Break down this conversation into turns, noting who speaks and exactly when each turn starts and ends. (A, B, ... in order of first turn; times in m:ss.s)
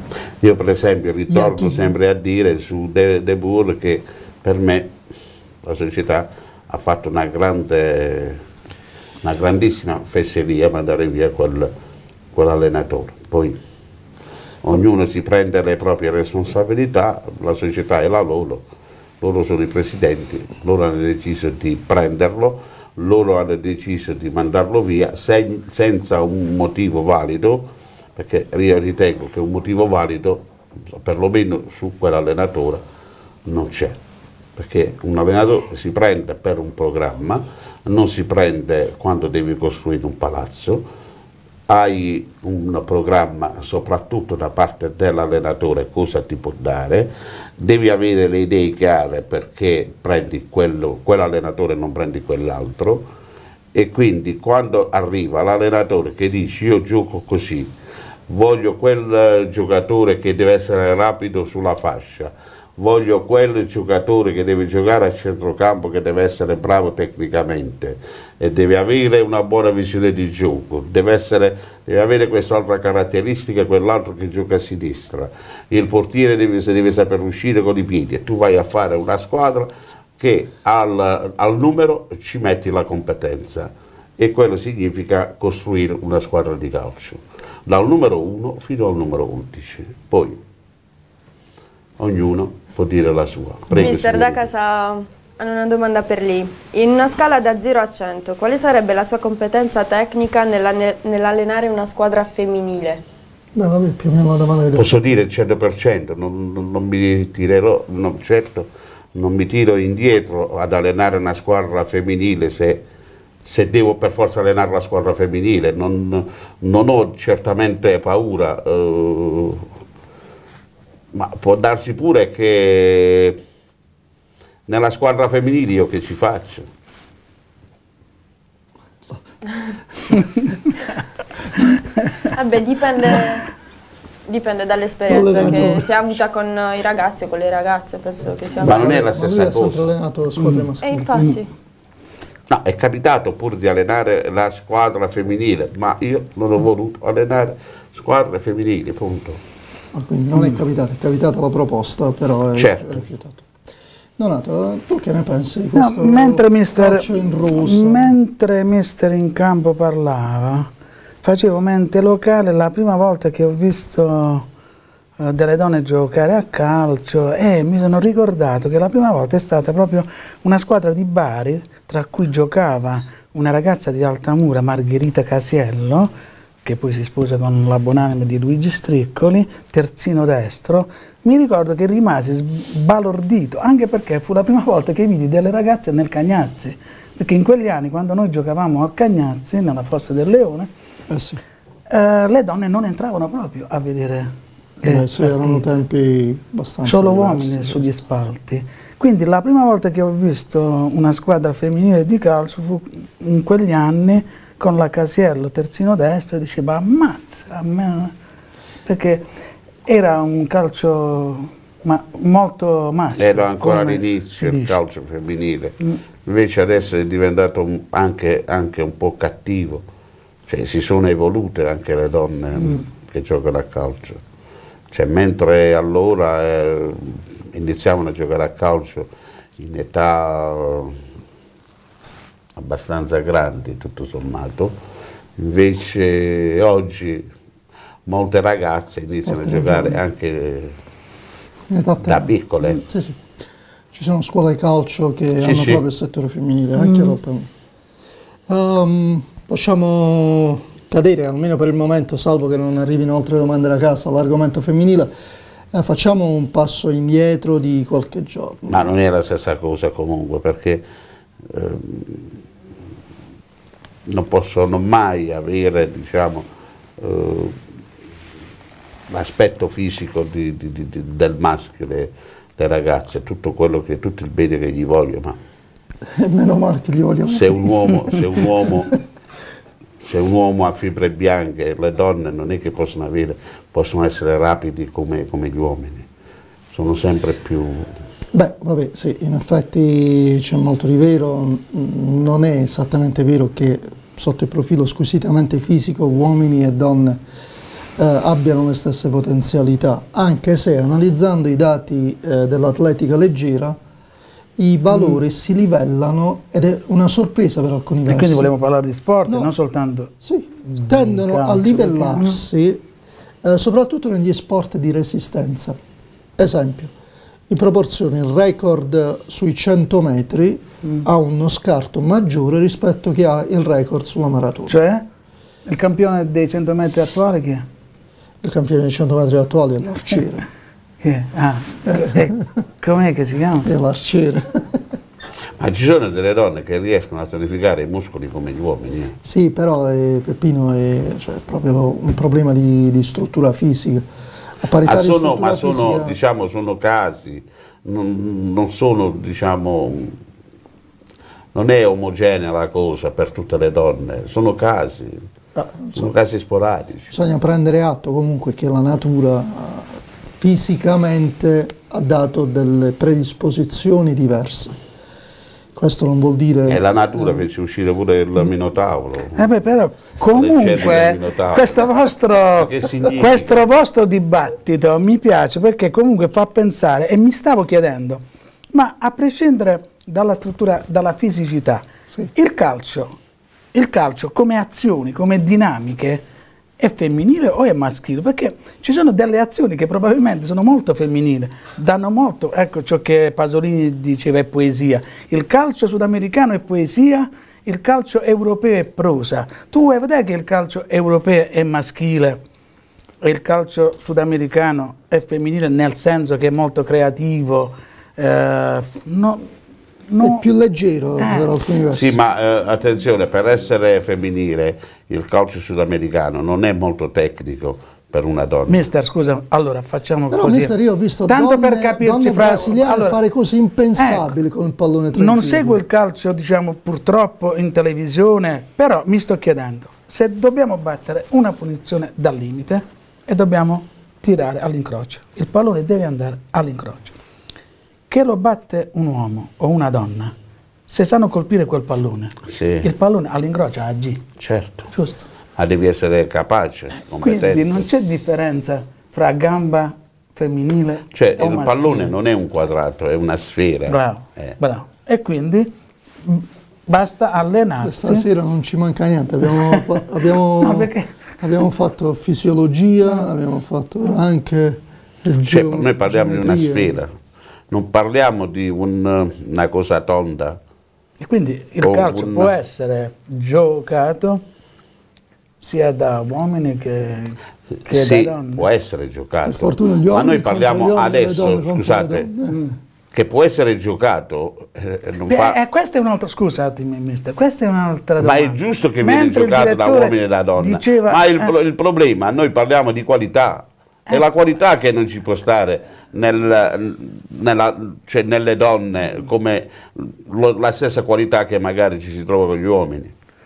0:00.4-0:04.9 A
0:01.3-0:01.9 B
0:05.6-0:08.4 A
0:09.2-0:11.7 A
0:12.3-0:13.6 A
0:14.6-0:18.6 A
0:19.2-0:32.8 A
0:33.4-0:34.0 A
0:34.6-0:40.8 A
0:41.7-0:53.0 A
0:53.7-0:57.7 A
0:58.3-1:30.4 A
1:32.0-1:34.5 A
1:33.7-1:43.0 C
1:43.5-1:45.0 B
1:44.7-1:52.8 A
1:53.4-1:59.6 A
2:01.1-2:03.4 A
2:04.7-2:06.6 A
2:12.0-2:12.3 D
2:12.3-2:13.5 C
2:14.2-2:19.0 C
2:15.1-2:15.9 B
2:18.6-2:19.9 A
2:18.6-2:21.1 B
2:20.4-2:20.7 D
2:20.8-2:21.5 C
2:22.5-2:29.4 A
2:29.9-2:33.5 B
2:32.6-2:33.0 A
2:34.2-2:38.1 B
2:35.7-2:40.7 D
2:41.2-2:44.4 D
2:45.2-2:56.1 D
2:56.6-3:10.7 D
3:11.1-3:11.4 B
3:11.9-3:15.6 D
3:14.8-3:17.9 B
3:16.8-3:28.1 D
3:28.8-3:29.2 D
3:29.8-3:34.7 D
3:33.2-3:39.8 A
3:40.5-3:44.2 A
3:44.9-3:49.1 A
3:49.6-3:51.0 A
3:52.6-3:54.7 A
3:55.4-3:57.3 A
3:58.1-4:00.7 A
3:59.2-4:00.0 B
4:01.7-4:03.2 B
4:02.0-4:02.8 A
4:03.9-4:07.5 B
4:05.4-4:05.8 A
4:06.8-4:07.1 D
4:08.5-4:15.1 B
4:15.7-4:18.8 B
4:18.7-4:20.8 A
4:21.5-4:22.4 A
4:24.0-4:26.4 A
4:27.0-4:27.6 A
4:29.1-4:35.4 A
4:36.1-4:38.2 B
4:37.3-4:39.0 A
4:40.0-4:46.0 A
4:46.7-4:47.9 A
4:48.3-4:57.2 B
4:58.0-5:03.8 B
5:04.6-5:08.5 B
5:08.1-5:10.1 D
5:10.2-5:12.8 B
5:10.7-5:12.4 D
5:13.4-5:15.8 B
5:16.4-5:16.9 B
5:17.5-5:24.8 B
5:24.7-5:25.0 D
5:25.7-5:27.6 D
5:28.4-5:30.5 B
5:31.0-5:33.7 D
5:31.9-5:32.3 B
5:33.6-5:34.8 B
5:35.6-5:39.2 A
5:39.2-5:44.0 B
5:44.6-5:46.2 B
5:44.8-5:50.2 A
5:51.5-5:55.2 A
5:55.5-5:56.1 B
5:55.9-5:57.1 A
5:57.1-6:04.7 B
6:05.7-6:07.4 B
6:06.6-6:09.5 A
6:09.4-6:18.2 D
6:10.3-6:11.9 A
6:12.5-6:13.6 A
6:18.7-6:23.2 D
6:23.7-6:26.2 D
6:26.8-6:42.4 D
6:43.2-6:49.5 D
6:50.1-6:50.4 D
6:50.2-6:52.2 B
6:51.2-6:51.5 D
6:51.9-6:58.8 A
6:58.7-7:00.7 D
7:00.3-7:05.8 B
7:01.3-7:03.2 D
7:04.0-7:04.3 D
7:05.2-7:17.2 D
7:18.1-7:20.3 D
7:20.9-7:24.2 D
7:22.4-7:22.9 A
7:24.4-7:24.9 A
7:24.9-7:25.2 D
7:25.6-7:27.8 A
7:27.2-7:32.1 D
7:31.1-7:34.6 A
7:33.9-7:35.7 D
7:36.2-7:38.2 D
7:37.8-7:40.9 B
7:39.6-7:40.0 D
7:40.6-7:41.1 D
7:41.4-7:47.0 B
7:45.4-7:47.1 A
7:47.7-7:50.6 A
7:51.2-7:54.4 D
7:51.8-7:52.5 A
7:55.6-7:58.7 D
7:57.9-8:02.3 A
7:59.4-8:02.7 B
8:03.1-8:05.6 A
8:05.3-8:11.5 D
8:08.2-8:23.1 A